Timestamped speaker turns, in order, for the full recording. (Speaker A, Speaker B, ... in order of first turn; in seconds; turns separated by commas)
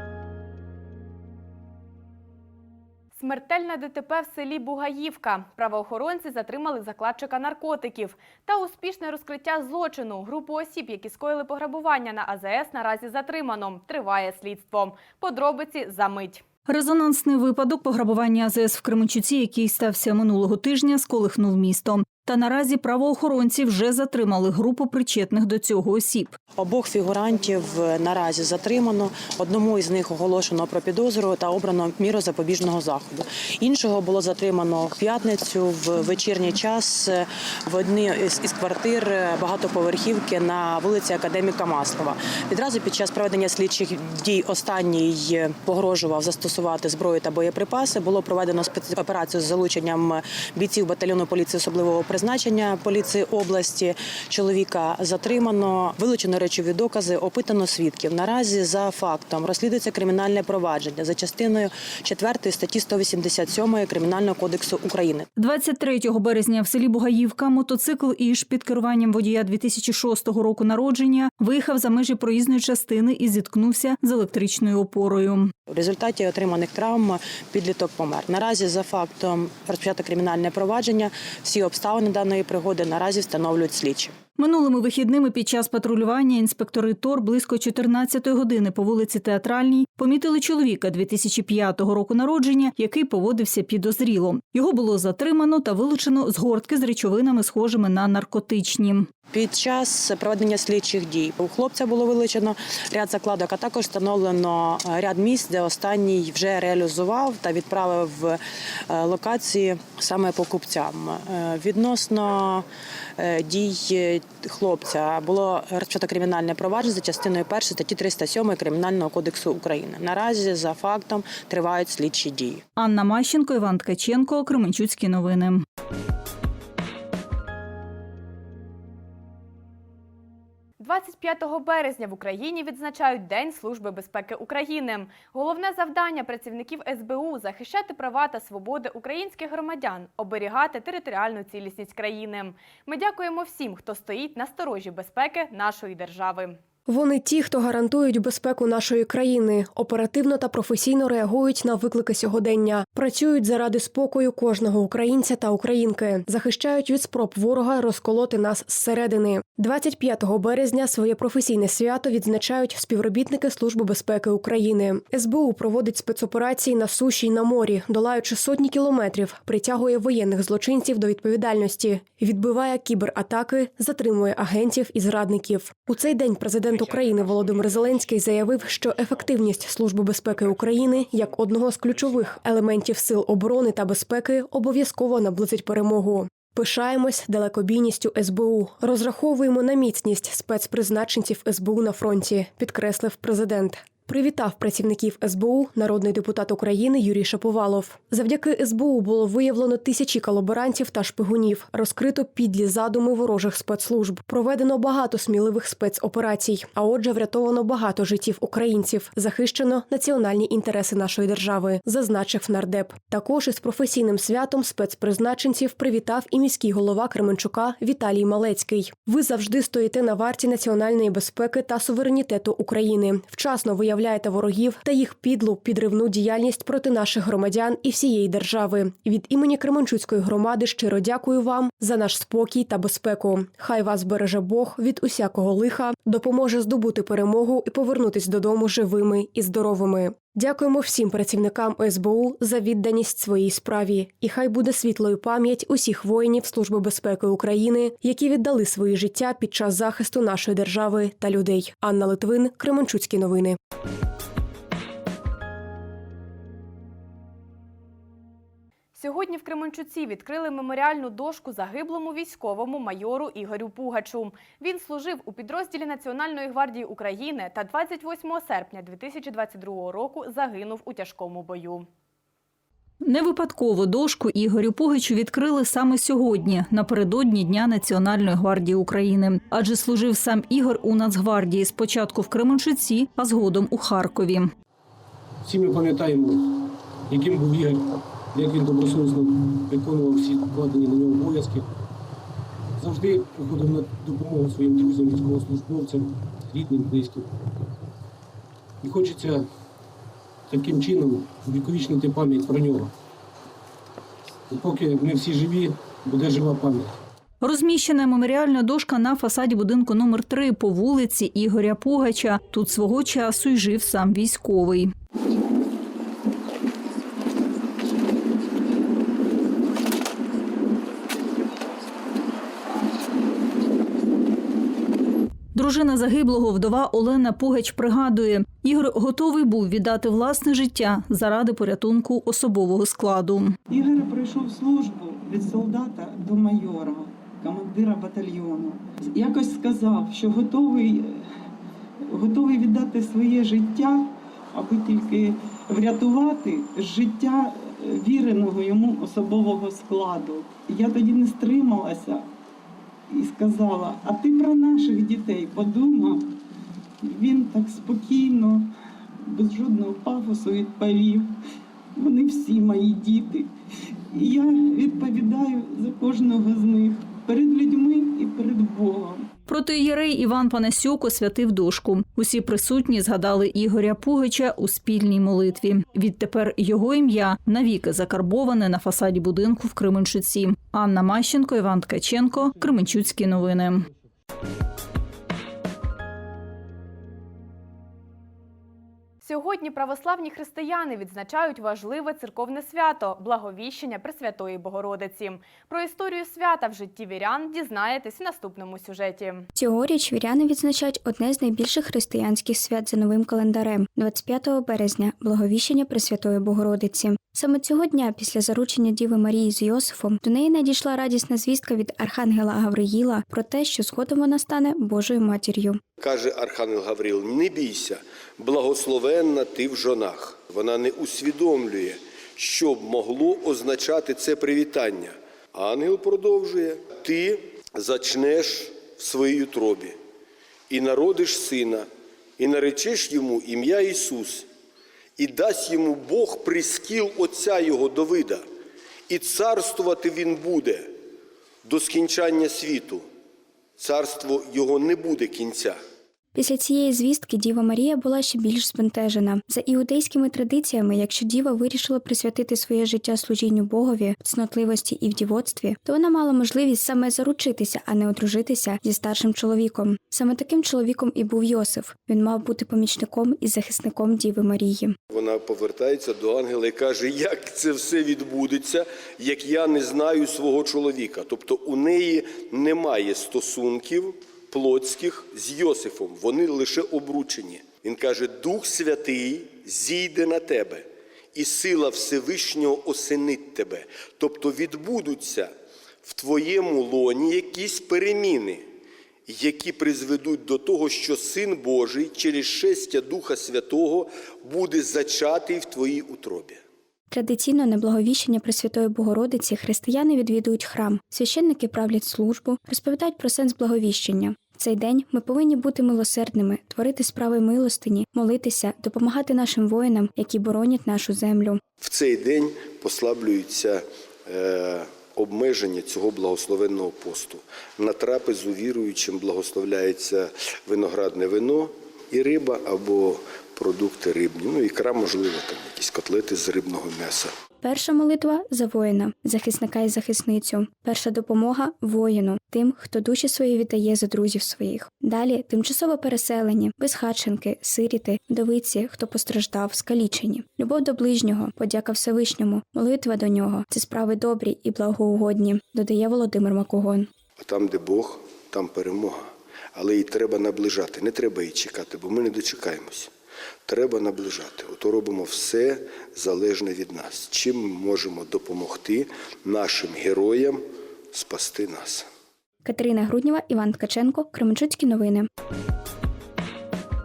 Speaker A: 3.1-16.4, Speaker B: 16.7-26.4, Speaker C: 26.6-65.3, Speaker B: 65.4-75.5, Speaker C: 75.7-84.2, Speaker B: 84.4-99.1, Speaker C: 99.3-112.7, Speaker C: 113.2-122.6, Speaker B: 122.8-125.6, Speaker A: 130.8-146.6, Speaker D: 146.9-253.6, Speaker A: 258.9-271.9, Speaker B: 273.0-284.5, Speaker E: 285.5-286.4, Speaker E: 287.1-287.8, Speaker E: 288.4-291.6, Speaker E: 292.8-297.2, Speaker E: 298.8-299.4, Speaker E: 300.5-302.9, Speaker E: 304.5-306.8, Speaker B: 307.4-314.9, Speaker B: 325.6-333.6, Speaker F: 333.7-341.3, Speaker F: 342.1-352.3, Speaker F: 353.1-356.3, Speaker F: 357.0-358.7, Speaker F: 359.2-361.4, Speaker F: 362.0-363.5, Speaker F: 364.1-369.3, Speaker B: 369.5-383.9, Speaker A: 389.2-399.5, Speaker G: 399.6-415.8, Speaker H: 416.0-430.0, Speaker H: 430.7-434.5, Speaker H: 435.2-438.4, Speaker H: 439.1-440.9, Speaker H: 441.6-443.0, Speaker H: 443.8-445.8, Speaker G: 446.4-465.0, Speaker H: 465.1-485.5, Speaker H: 486.0-488.7, Speaker H: 489.3-496.6, Speaker G: 497.1-511.6, Speaker H: 511.8-527.3, Speaker G: 527.6-547.1, Speaker H: 547.4-553.1, Speaker H: 553.7-560.6, Speaker H: 561.1-562.1, Speaker G: 562.6-565.3